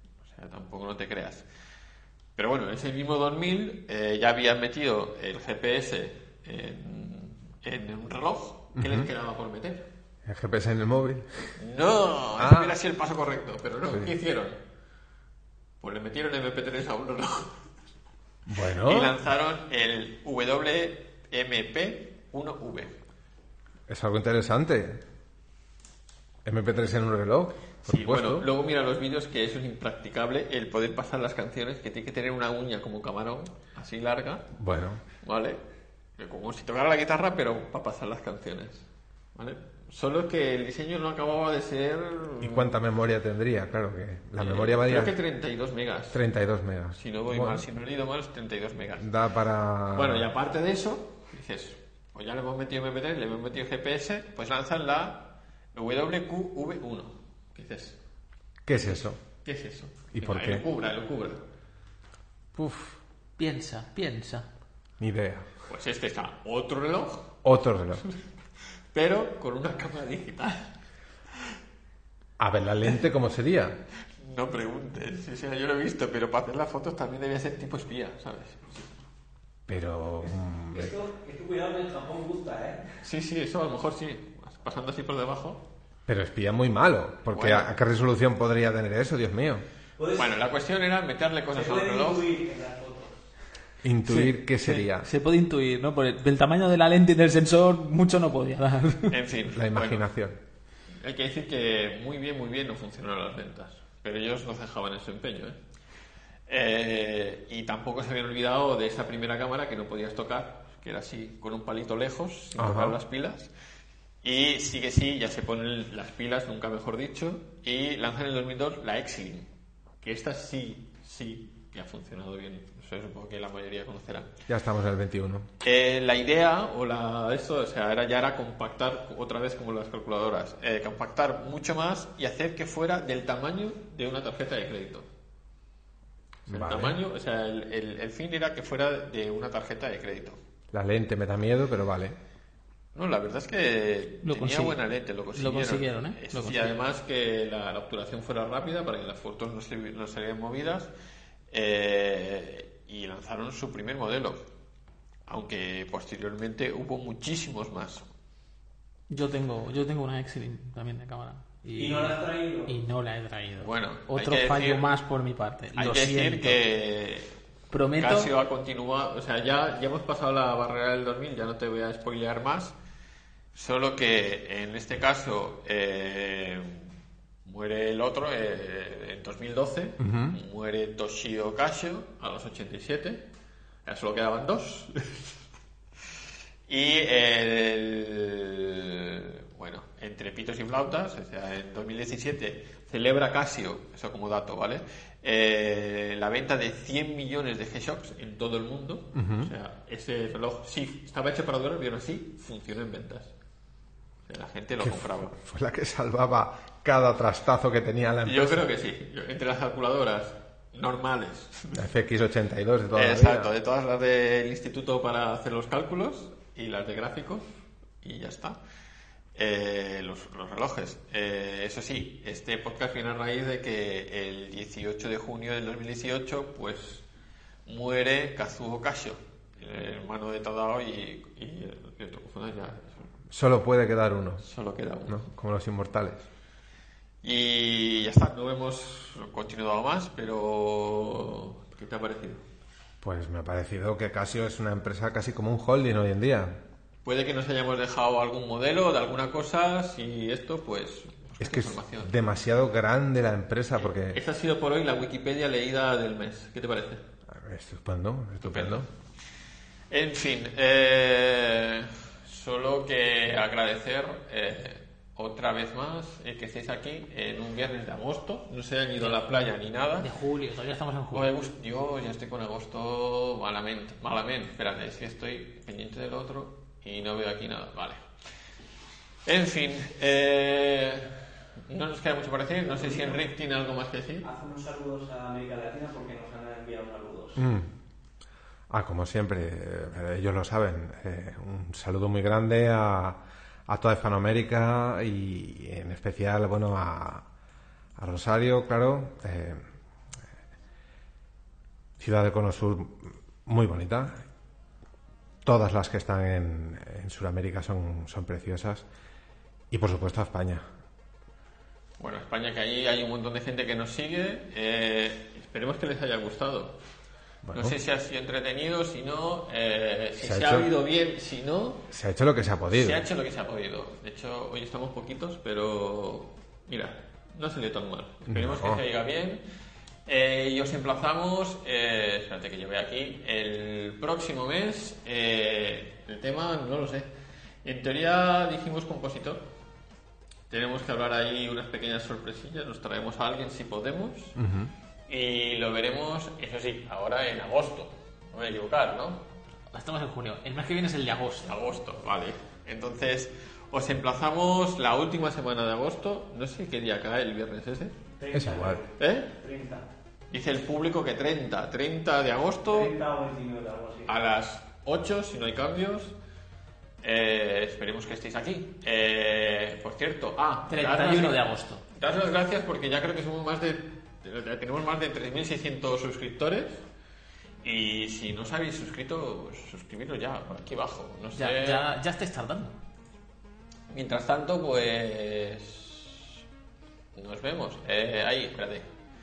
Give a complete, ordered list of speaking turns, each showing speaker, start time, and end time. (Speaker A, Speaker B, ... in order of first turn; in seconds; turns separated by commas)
Speaker A: 0.2-1.4, Speaker A: 2.4-9.8, Speaker B: 8.8-9.1, Speaker B: 10.2-11.6, Speaker A: 11.6-14.6, Speaker B: 12.4-12.7, Speaker A: 15.8-17.6, Speaker B: 18.5-19.2, Speaker A: 18.7-22.9, Speaker B: 23.9-25.0, Speaker B: 26.4-28.5, Speaker A: 27.8-34.5, Speaker B: 34.5-35.0, Speaker A: 35.2-35.6, Speaker A: 36.2-42.7, Speaker B: 42.4-45.2, Speaker A: 44.4-46.2, Speaker B: 46.1-47.6, Speaker A: 46.9-49.1, Speaker B: 49.0-50.2, Speaker A: 49.9-58.0, Speaker B: 58.6-59.2, Speaker A: 58.8-61.4, Speaker B: 60.1-60.6, Speaker B: 62.5-63.0, Speaker C: 63.4-64.5, Speaker B: 65.0-65.5, Speaker A: 65.7-67.3, Speaker B: 67.4-68.0, Speaker A: 68.9-70.7, Speaker B: 72.4-73.8, Speaker A: 74.2-78.9, Speaker B: 79.7-80.9, Speaker D: 80.7-83.0, Speaker A: 83.0-85.6, Speaker B: 86.1-89.6, Speaker A: 87.3-87.7, Speaker D: 90.0-90.4, Speaker A: 90.1-92.3, Speaker D: 91.5-93.2, Speaker B: 93.8-95.0, Speaker C: 94.0-99.2, Speaker A: 99.1-100.0, Speaker B: 99.5-100.4, Speaker A: 101.0-105.6, Speaker A: 106.5-113.5, Speaker B: 112.5-113.0, Speaker A: 114.2-119.5, Speaker A: 120.0-124.3, Speaker B: 124.5-125.5, Speaker A: 125.6-135.1, Speaker B: 136.5-137.0, Speaker A: 136.5-140.4, Speaker B: 140.7-142.2, Speaker A: 142.9-150.9, Speaker C: 144.2-146.8, Speaker A: 151.5-154.5, Speaker A: 155.3-158.1, Speaker C: 159.1-166.6, Speaker D: 161.7-162.7, Speaker A: 163.6-164.9, Speaker A: 165.7-167.3, Speaker C: 167.7-168.3, Speaker A: 167.9-172.7, Speaker A: 173.5-176.9, Speaker A: 177.4-183.3, Speaker B: 180.0-180.4, Speaker A: 183.8-185.3, Speaker A: 186.7-203.3, Speaker B: 199.1-199.5, Speaker A: 204.3-205.3, Speaker B: 204.8-208.7, Speaker A: 208.2-211.8, Speaker B: 211.7-213.5, Speaker A: 212.9-217.4, Speaker A: 218.0-218.6, Speaker A: 219.3-227.0, Speaker A: 227.7-233.0, Speaker B: 233.3-234.4, Speaker A: 234.4-235.3, Speaker B: 235.1-236.3, Speaker A: 237.2-242.4, Speaker B: 243.0-246.6, Speaker A: 247.0-252.1, Speaker B: 251.4-254.2, Speaker A: 253.8-257.0, Speaker B: 257.3-258.9, Speaker A: 258.4-258.9, Speaker A: 259.9-270.1, Speaker C: 270.0-271.3, Speaker A: 271.1-278.0, Speaker A: 279.2-284.2, Speaker D: 282.7-283.2, Speaker D: 284.2-287.4, Speaker B: 287.4-287.7, Speaker B: 288.7-297.2, Speaker B: 298.0-299.6, Speaker B: 302.0-304.2, Speaker B: 305.4-308.9, Speaker B: 309.7-310.6, Speaker A: 312.0-316.8, Speaker B: 317.4-317.8, Speaker A: 317.5-321.9, Speaker B: 320.2-320.7, Speaker B: 321.9-323.0, Speaker A: 322.7-329.4, Speaker B: 328.3-328.8, Speaker A: 330.1-337.1, Speaker A: 337.6-339.5, Speaker A: 340.5-344.4, Speaker B: 344.4-344.7, Speaker A: 345.1-349.2, Speaker C: 349.7-351.6, Speaker A: 351.4-358.0, Speaker D: 358.2-359.9, Speaker B: 358.3-358.8, Speaker A: 359.0-359.3, Speaker A: 360.3-362.9, Speaker D: 362.7-364.1, Speaker A: 364.1-366.1, Speaker A: 367.0-371.4, Speaker C: 370.7-371.8, Speaker A: 371.9-376.8, Speaker A: 377.6-381.9, Speaker C: 381.4-382.8, Speaker A: 383.9-386.4, Speaker A: 387.1-388.9